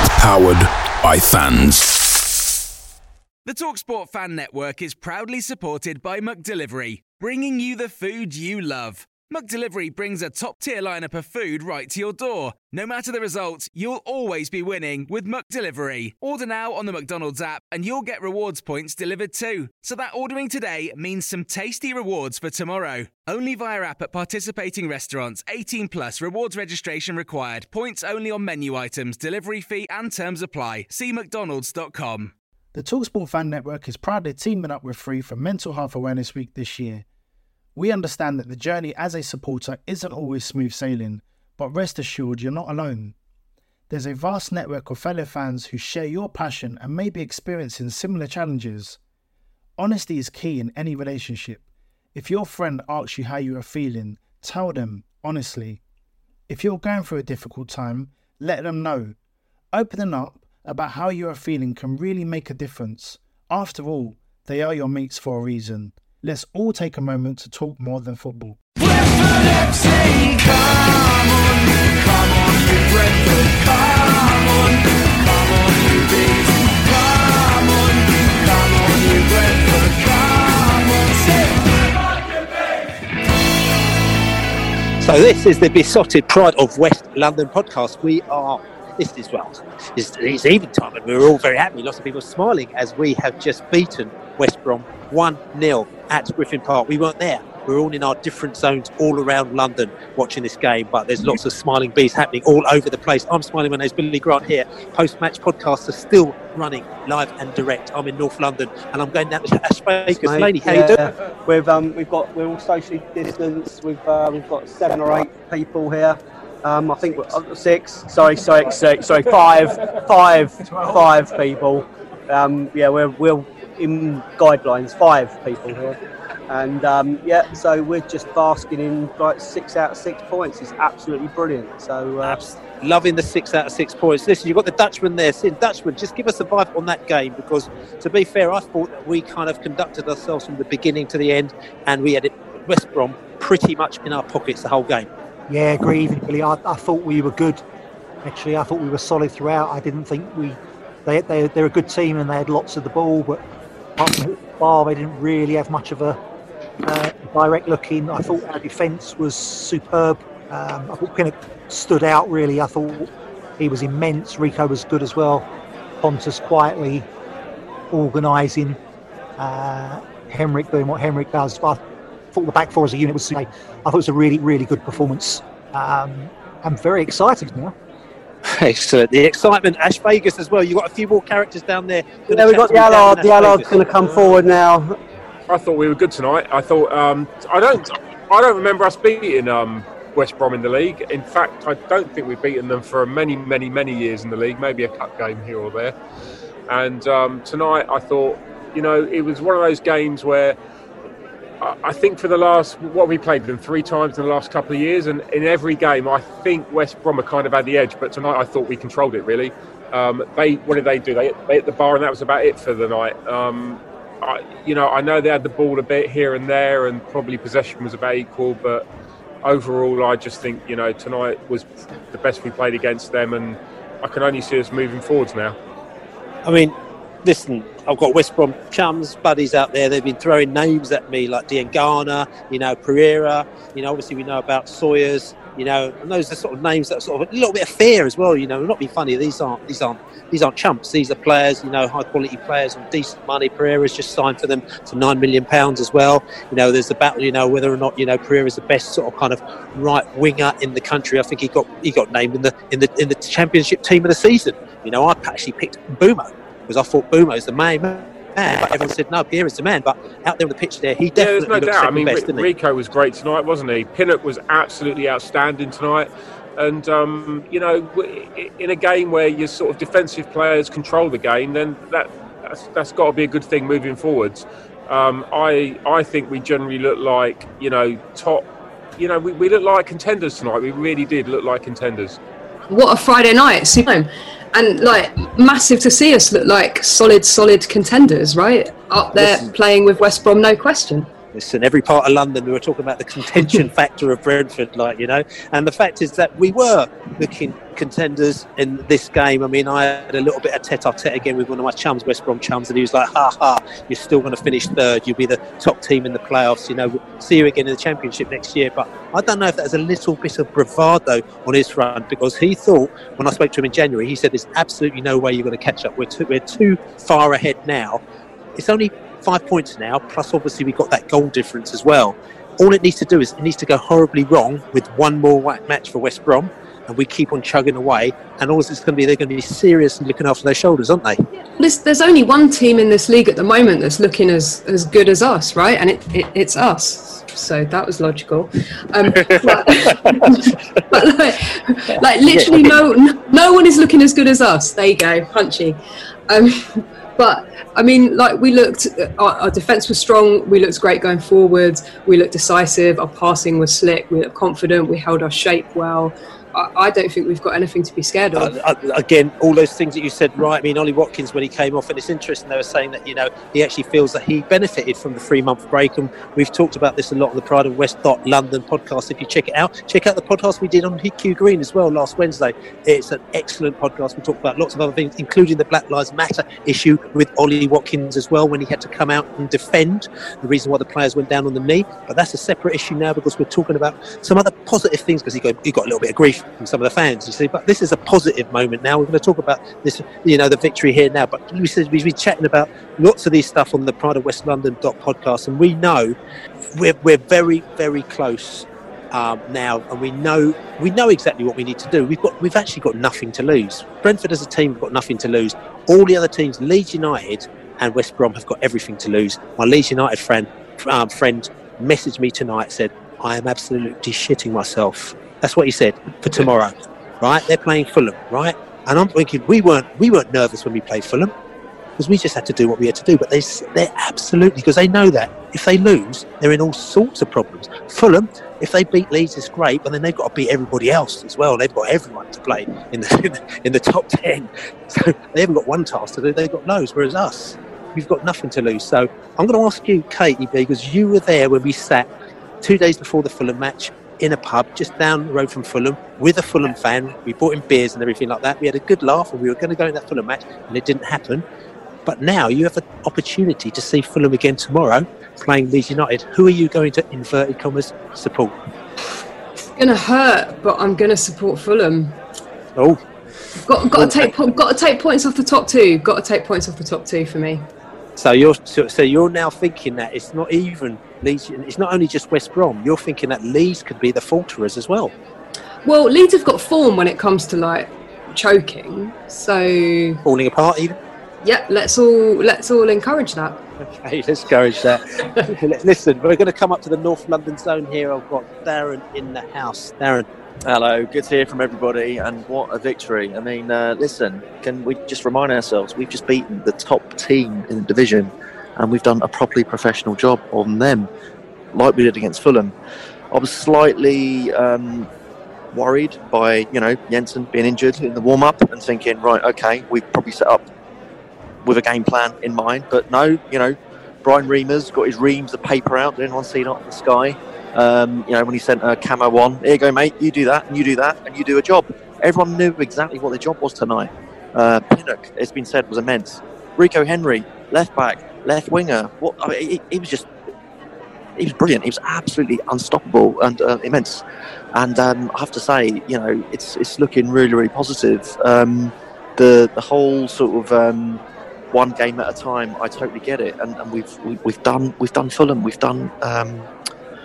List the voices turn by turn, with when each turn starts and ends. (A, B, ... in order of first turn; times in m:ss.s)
0:03.4-0:32.3 A
0:32.7-0:37.0 B
0:37.7-0:43.2 B
0:43.9-0:49.0 B
0:49.8-0:51.6 B
0:52.1-0:55.8 B
0:56.5-0:59.2 B
0:59.7-1:08.6 B
1:25.0-1:51.0 C
1:50.1-2:06.0 D
2:06.5-2:12.4 D
2:12.2-2:25.1 C
2:25.5-2:27.6 E
2:28.2-2:33.4 E
2:34.0-2:36.2 E
2:36.8-2:45.5 E
2:46.0-2:47.1 E
2:47.9-2:48.8 E
2:49.4-2:51.8 E
2:52.3-2:57.7 E
2:58.6-3:04.0 C
3:02.3-3:04.9 D
3:05.5-3:15.9 F
3:16.7-3:20.6 F
3:21.6-3:38.8 F
3:39.4-3:45.6 F
3:46.4-4:22.5 C
4:21.1-4:38.4 F
4:39.0-4:42.2 F
4:42.7-4:51.1 G
4:49.2-4:49.5 C
4:51.3-5:18.0 C
5:18.6-5:31.2 C
5:31.6-5:58.5 G
5:39.1-5:40.3 C
5:41.9-5:42.8 C
5:58.3-6:36.1 C
6:36.8-7:01.3 C
7:02.0-7:22.1 C
7:22.6-7:31.4 C
7:32.1-7:38.5 C
7:39.8-7:42.2 G
7:43.6-7:47.6 G
7:43.9-7:44.3 C
7:48.2-7:55.1 C
7:55.8-8:00.2 G
8:00.2-8:01.0 C
8:01.4-8:03.6 G
8:03.9-8:10.2 C
8:10.6-8:21.1 H
8:21.7-8:22.7 H
8:23.3-8:25.1 H
8:25.7-8:30.6 H
8:31.6-8:50.3 H
8:51.4-8:54.2 H
8:54.7-9:06.7 H